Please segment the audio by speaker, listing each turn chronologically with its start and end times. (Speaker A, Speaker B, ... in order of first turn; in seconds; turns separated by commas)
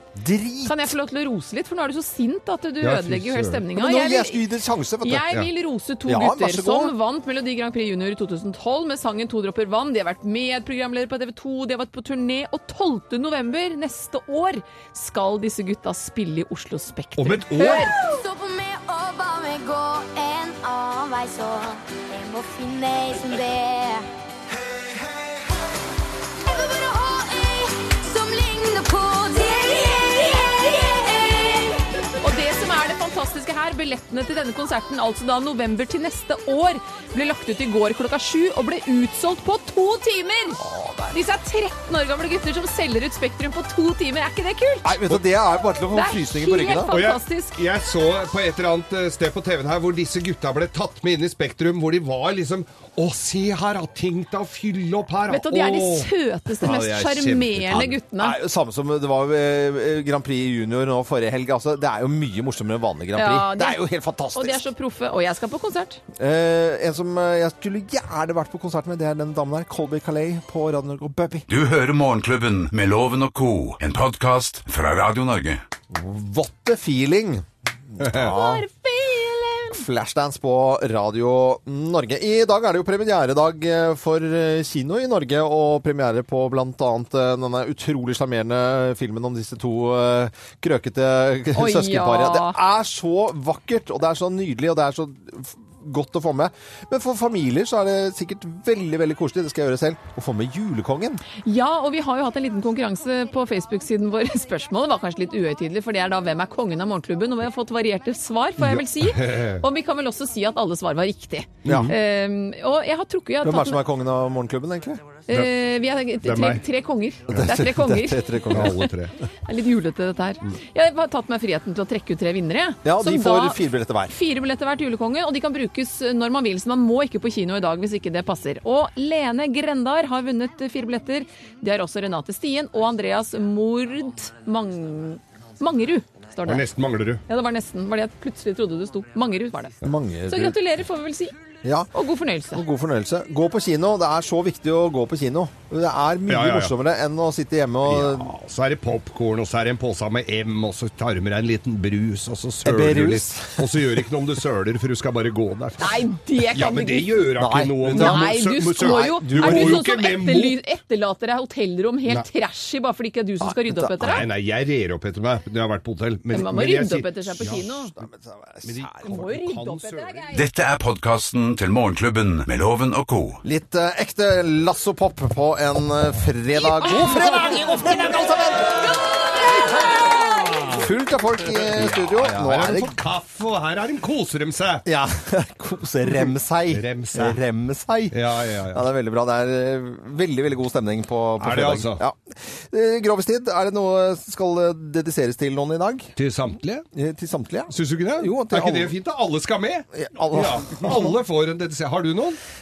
Speaker A: 0.1-0.9, Speaker B: 0.6-4.4, Speaker C: 2.8-3.6, Speaker A: 3.7-5.4, Speaker B: 5.0-17.9, Speaker A: 6.0-6.9, Speaker C: 17.2-17.9, Speaker D: 17.9-24.1, Speaker D: 26.4-31.8, Speaker B: 32.2-45.0, Speaker A: 40.6-41.2, Speaker A: 44.8-47.0, Speaker B: 45.9-47.5, Speaker C: 46.9-58.0, Speaker B: 55.3-58.4, Speaker A: 58.2-64.6, Speaker B: 63.1-63.8, Speaker B: 64.3-66.0, Speaker A: 66.2-71.5, Speaker E: 71.5-75.6, Speaker A: 75.9-78.7, Speaker C: 78.0-78.3, Speaker B: 78.3-79.8, Speaker A: 79.7-101.2, Speaker B: 91.5-92.6, Speaker B: 101.3-113.8, Speaker C: 108.6-109.6, Speaker A: 111.6-112.0, Speaker C: 111.6-112.0, Speaker A: 113.4-115.0, Speaker B: 115.3-118.8, Speaker C: 116.2-116.6, Speaker A: 117.3-118.9, Speaker C: 118.5-119.1, Speaker B: 119.5-136.7, Speaker A: 122.8-124.1, Speaker C: 136.4-137.2, Speaker B: 137.3-141.3, Speaker A: 139.8-140.6, Speaker A: 141.6-141.9, Speaker B: 141.9-142.6, Speaker A: 142.5-148.3, Speaker C: 146.3-146.7, Speaker C: 147.8-155.9, Speaker A: 152.6-153.8, Speaker B: 155.8-157.2, Speaker C: 156.5-160.6, Speaker A: 157.3-159.8, Speaker B: 157.9-164.2, Speaker A: 163.4-164.2, Speaker C: 164.0-167.7, Speaker B: 166.3-167.9, Speaker A: 167.4-169.2, Speaker C: 168.6-170.3, Speaker B: 169.0-170.4, Speaker E: 170.3-173.4, Speaker A: 173.4-179.0, Speaker C: 176.8-178.0, Speaker B: 177.0-177.5, Speaker C: 180.0-180.8, Speaker A: 180.7-183.0, Speaker C: 181.6-184.8, Speaker A: 184.8-188.2, Speaker C: 186.1-187.4, Speaker C: 188.1-188.8, Speaker A: 188.7-196.1, Speaker C: 191.4-192.0, Speaker C: 196.2-196.8, Speaker A: 196.9-198.9, Speaker C: 197.7-202.4, Speaker A: 199.9-201.2